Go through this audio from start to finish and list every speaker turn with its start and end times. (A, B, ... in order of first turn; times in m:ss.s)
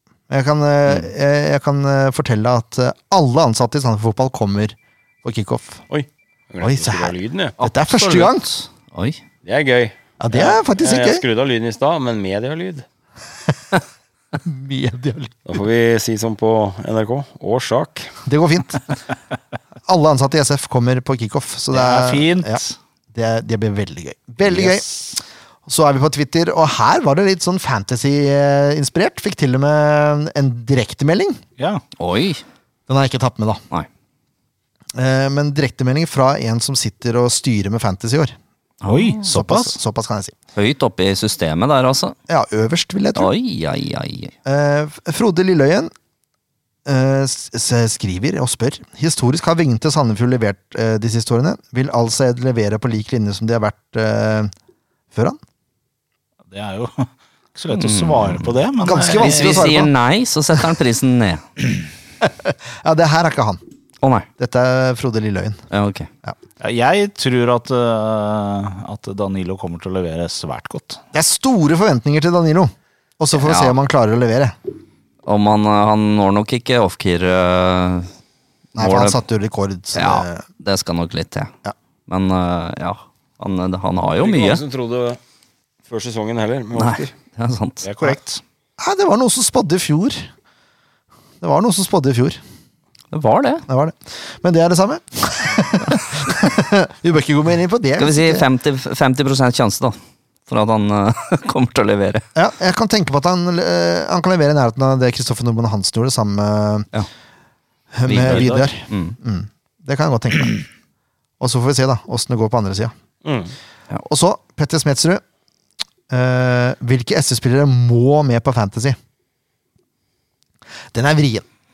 0:00.3-0:05.8 A
0:05.9-0:07.6 B
0:06.6-0:08.5 A
0:07.6-0:09.2 C
0:09.4-0:12.8 B
0:10.2-0:11.2 A
0:14.4-0:15.4 A
0:15.4-0:18.1 B
0:18.2-0:18.8 A
0:19.8-0:24.8 A
0:21.7-0:22.8 D
0:24.4-0:25.0 D
0:25.6-0:31.4 A
0:31.6-0:31.8 D
0:32.0-0:32.4 C
0:32.9-0:33.6 A
0:34.9-0:38.3 A
0:38.8-0:39.4 C
0:38.9-0:39.7 D
0:39.3-0:40.4 A
0:40.5-0:42.2 C
0:42.3-0:43.3 A
0:43.2-0:44.3 C
0:44.4-0:45.9 A
0:46.8-0:54.5 A
0:55.1-0:55.4 A
0:56.5-0:59.7 D
0:57.7-0:58.6 C
0:58.8-0:59.9 A
0:59.2-1:01.4 C
1:02.2-1:03.6 A
1:04.0-1:04.3 C
1:04.4-1:05.6 A
1:05.7-1:06.1 C
1:06.6-1:11.0 D
1:11.1-1:14.5 A
1:13.3-1:13.8 C
1:15.2-1:18.1 C
1:18.8-1:19.2 C
1:18.8-1:20.4 A
1:19.9-1:21.5 C
1:22.1-1:24.6 C
1:24.2-1:25.2 B
1:25.9-1:27.1 B
1:26.8-1:27.9 C
1:27.8-1:28.4 D
1:28.8-1:30.3 A
1:31.4-1:32.4 A
1:33.1-1:33.6 C
1:33.7-1:38.4 A
1:38.0-1:42.2 C
1:42.3-1:46.9 A
1:47.9-1:50.6 A
1:48.0-1:49.2 C
1:48.1-1:48.7 D
1:51.4-1:52.9 A
1:53.2-1:53.5 B
1:54.0-1:55.2 A
1:56.1-1:59.0 A
2:00.9-2:01.4 A